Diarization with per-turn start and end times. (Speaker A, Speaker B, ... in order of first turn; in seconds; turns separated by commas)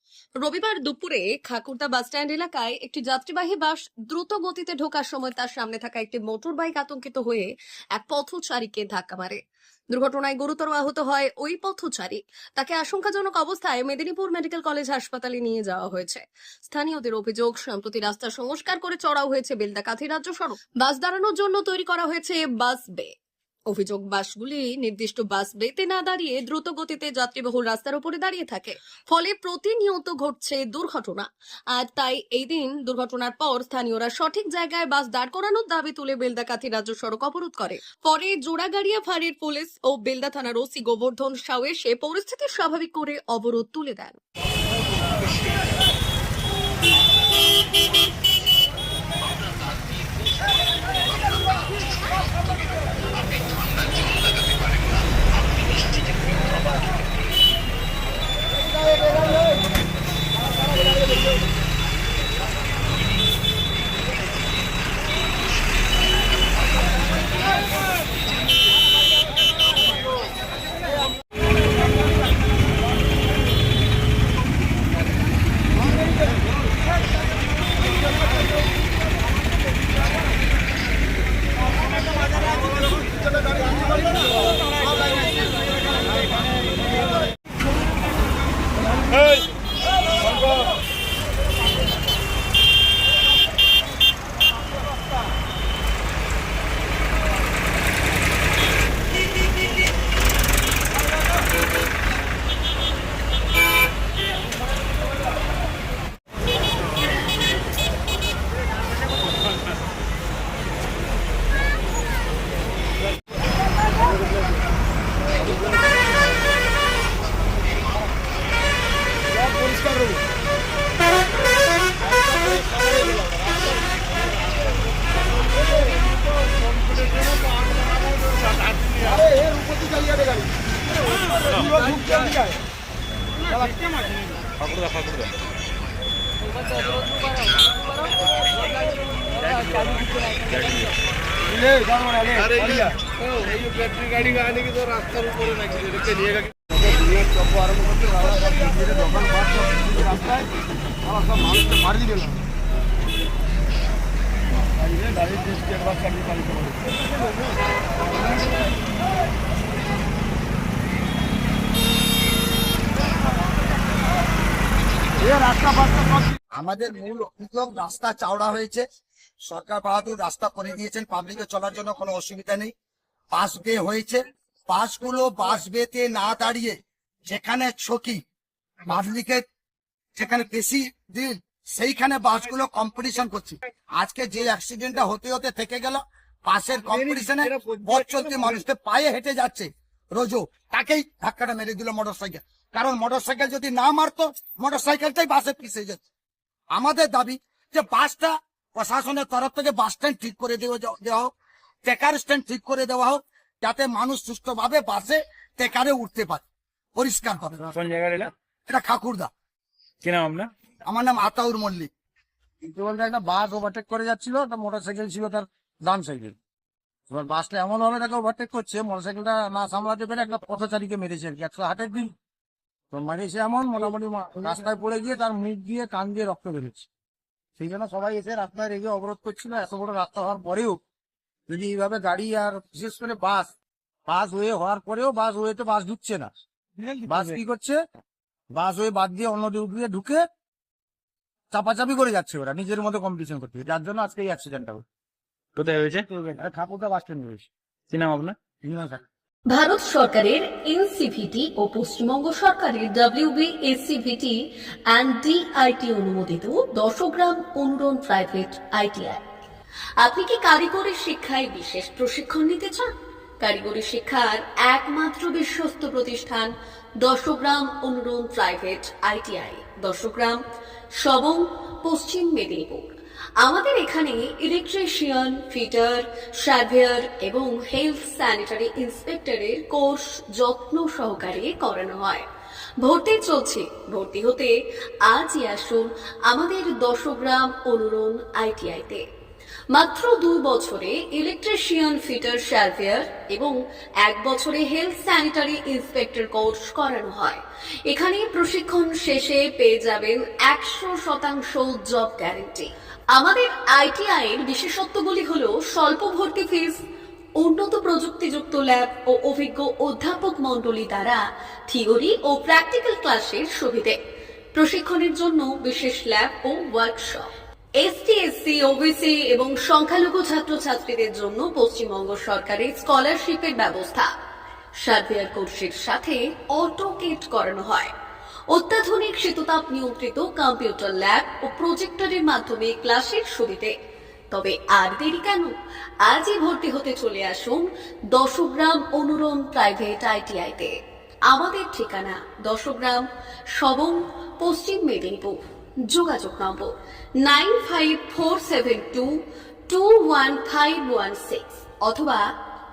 Speaker A: 0.4-9.4, Speaker A: 9.9-23.1, Speaker A: 23.7-44.2, Speaker B: 119.5-120.2, Speaker B: 122.5-123.6, Speaker B: 127.6-128.1, Speaker B: 129.0-130.4, Speaker B: 131.6-132.4, Speaker C: 134.6-135.2, Speaker B: 141.5-142.9, Speaker B: 143.8-145.0, Speaker B: 146.8-150.4, Speaker B: 151.1-152.3, Speaker B: 154.9-156.8, Speaker D: 165.4-166.0, Speaker E: 166.6-168.8, Speaker E: 169.4-172.7, Speaker E: 173.3-178.2, Speaker E: 178.9-179.4, Speaker E: 180.2-196.0, Speaker E: 196.7-201.3, Speaker E: 201.8-206.4, Speaker E: 207.0-207.7, Speaker C: 207.7-208.3, Speaker E: 208.7-209.3, Speaker C: 210.0-210.5, Speaker E: 210.9-211.9, Speaker D: 212.6-216.4, Speaker D: 217.1-222.1, Speaker D: 222.9-226.9, Speaker D: 227.6-230.8, Speaker D: 231.5-233.5, Speaker D: 234.1-236.3, Speaker D: 237.1-237.8, Speaker D: 238.5-240.2, Speaker D: 241.5-244.8, Speaker C: 245.6-246.1, Speaker D: 246.1-247.5, Speaker C: 247.9-248.4, Speaker D: 248.6-249.1, Speaker A: 249.5-259.2, Speaker A: 260.0-262.9, Speaker A: 263.4-270.4, Speaker A: 271.0-272.9, Speaker A: 273.4-282.2, Speaker A: 282.8-284.5, Speaker A: 285.1-289.0, Speaker A: 289.7-306.8, Speaker A: 307.4-314.0, Speaker A: 314.6-317.3, Speaker A: 317.8-324.1, Speaker A: 324.8-327.9, Speaker A: 328.5-333.7, Speaker A: 334.3-335.5, Speaker A: 336.1-340.7, Speaker A: 341.3-345.4, Speaker A: 345.9-349.1, Speaker A: 349.7-352.2